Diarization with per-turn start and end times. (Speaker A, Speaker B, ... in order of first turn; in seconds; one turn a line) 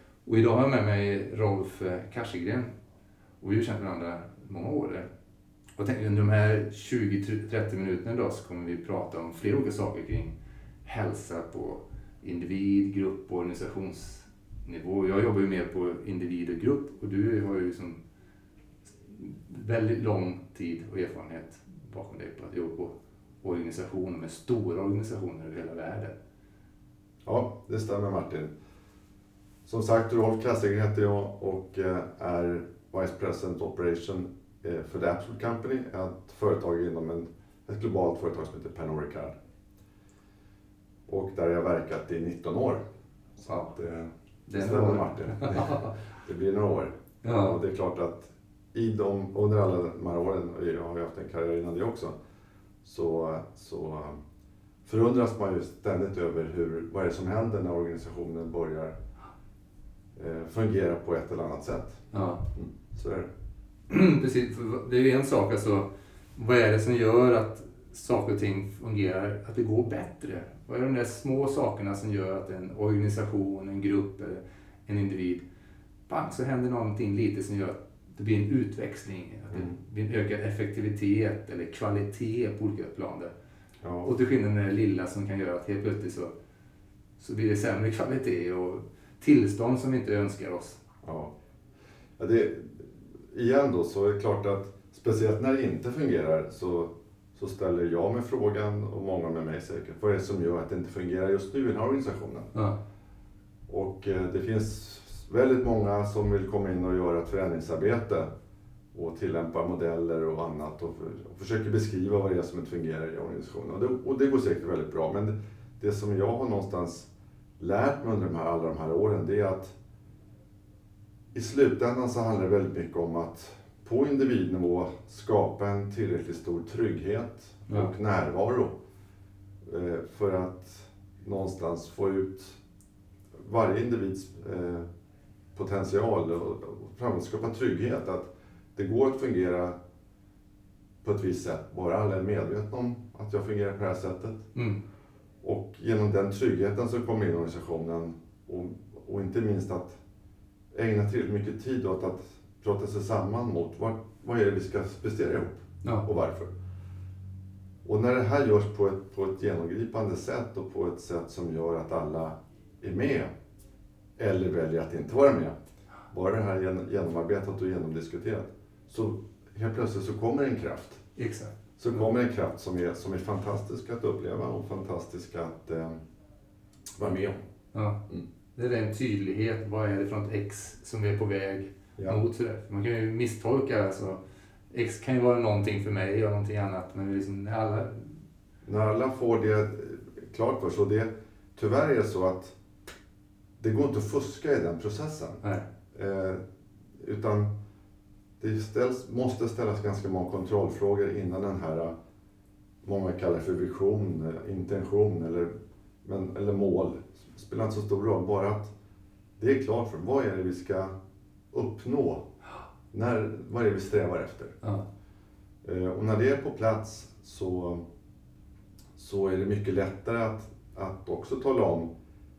Speaker A: 0.2-2.7
Speaker A: 3.4-5.1
Speaker A: 5.8-10.3
Speaker A: 10.8-18.0
Speaker A: 19.1-26.1
Speaker B: 27.2-28.5
Speaker B: 29.6-39.4
Speaker B: 41.1-42.8
Speaker B: 43.4-52.1
Speaker A: 44.5-45.9
Speaker A: 47.2-47.6
Speaker B: 52.8-54.2
Speaker B: 54.8-58.9
Speaker B: 60.1-62.0
Speaker A: 62.1-62.5
Speaker B: 62.5-63.3
Speaker A: 63.9-75.4
Speaker A: 76.1-83.3
Speaker B: 83.8-84.1
Speaker A: 84.0-86.3
Speaker A: 87.2-90.8
Speaker B: 91.0-91.3
Speaker B: 92.2-102.5
Speaker B: 103.7-108.3
Speaker B: 108.9-119.7
Speaker B: 121.3-128.7
Speaker B: 129.6-132.6
Speaker B: 133.3-134.8
Speaker B: 135.5-139.7
Speaker B: 141.0-144.4
Speaker A: 144.5-144.8
Speaker B: 145.4-150.0
Speaker B: 150.7-156.5
Speaker B: 157.8-163.3
Speaker B: 164.2-165.5
Speaker B: 166.1-171.0
Speaker A: 171.2-171.5
Speaker B: 171.8-175.9
Speaker B: 176.9-177.4
Speaker A: 177.7-178.0
Speaker A: 178.6-184.2
Speaker A: 184.7-188.1
Speaker B: 188.6-192.6
Speaker B: 193.6-195.4
Speaker A: 195.4-195.7
Speaker B: 195.9-196.4
Speaker B: 197.0-197.5
Speaker B: 198.4-201.9
Speaker B: 202.8-205.5
Speaker B: 206.0-208.7
Speaker B: 209.4-210.9
Speaker B: 211.5-212.2
Speaker B: 212.9-214.6
Speaker B: 215.6-217.8
Speaker B: 218.9-221.9